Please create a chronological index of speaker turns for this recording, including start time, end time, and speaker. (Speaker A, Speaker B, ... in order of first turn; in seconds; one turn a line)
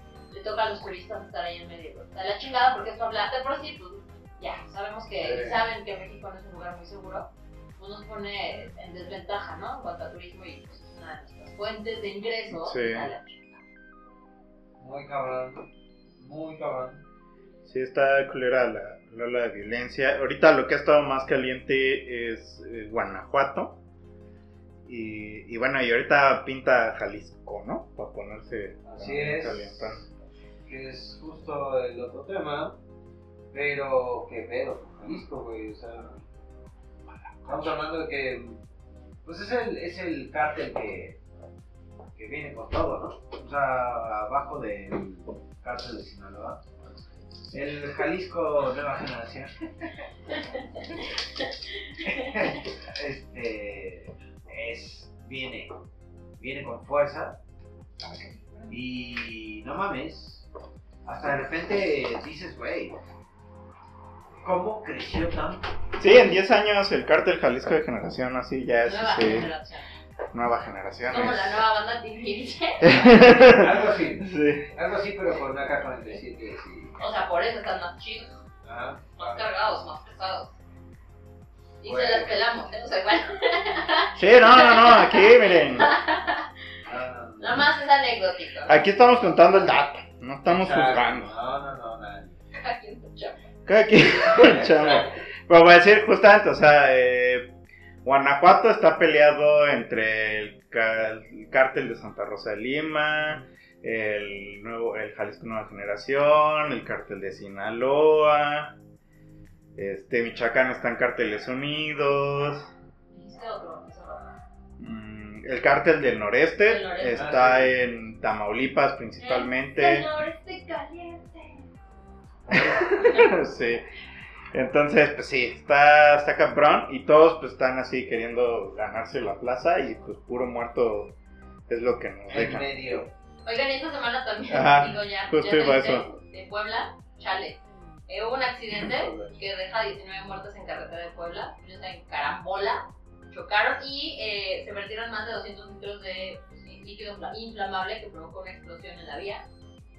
Speaker A: 0.3-13.6
Speaker B: 5.2-5.6
Speaker C: 12.5-13.1
Speaker B: 14.8-15.7
Speaker B: 16.2-17.0
Speaker C: 17.6-23.8
Speaker C: 24.9-30.0
Speaker B: 28.8-30.1
Speaker B: 30.6-32.8
Speaker B: 33.5-36.2
Speaker B: 37.4-38.6
Speaker B: 39.2-41.2
Speaker B: 42.1-46.6
Speaker B: 47.5-49.5
Speaker B: 52.0-55.7
Speaker B: 56.4-57.4
Speaker B: 58.7-60.5
Speaker B: 61.0-63.0
Speaker B: 64.4-65.6
Speaker C: 66.0-69.5
Speaker A: 68.8-69.9
Speaker C: 70.3-71.6
Speaker A: 71.0-73.0
Speaker C: 72.8-74.7
Speaker B: 73.0-76.9
Speaker A: 77.0-78.4
Speaker B: 78.6-79.4
Speaker A: 79.2-80.5
Speaker A: 81.8-86.5
Speaker B: 81.8-82.3
Speaker C: 84.2-85.9
Speaker B: 86.8-87.7
Speaker A: 87.4-89.4
Speaker C: 88.7-91.3
Speaker B: 90.4-92.4
Speaker A: 92.5-93.5
Speaker C: 93.7-97.5
Speaker B: 94.3-95.1
Speaker C: 98.0-108.8
Speaker C: 109.8-112.7
Speaker A: 113.1-114.4
Speaker C: 114.8-120.1
Speaker A: 116.6-117.2
Speaker B: 117.1-117.8
Speaker A: 119.2-121.7
Speaker B: 122.5-122.8
Speaker C: 122.5-123.8
Speaker A: 122.9-123.3
Speaker C: 124.5-131.2
Speaker C: 131.7-132.7
Speaker B: 132.3-133.1
Speaker A: 133.4-149.4
Speaker C: 134.5-136.1
Speaker B: 138.8-139.3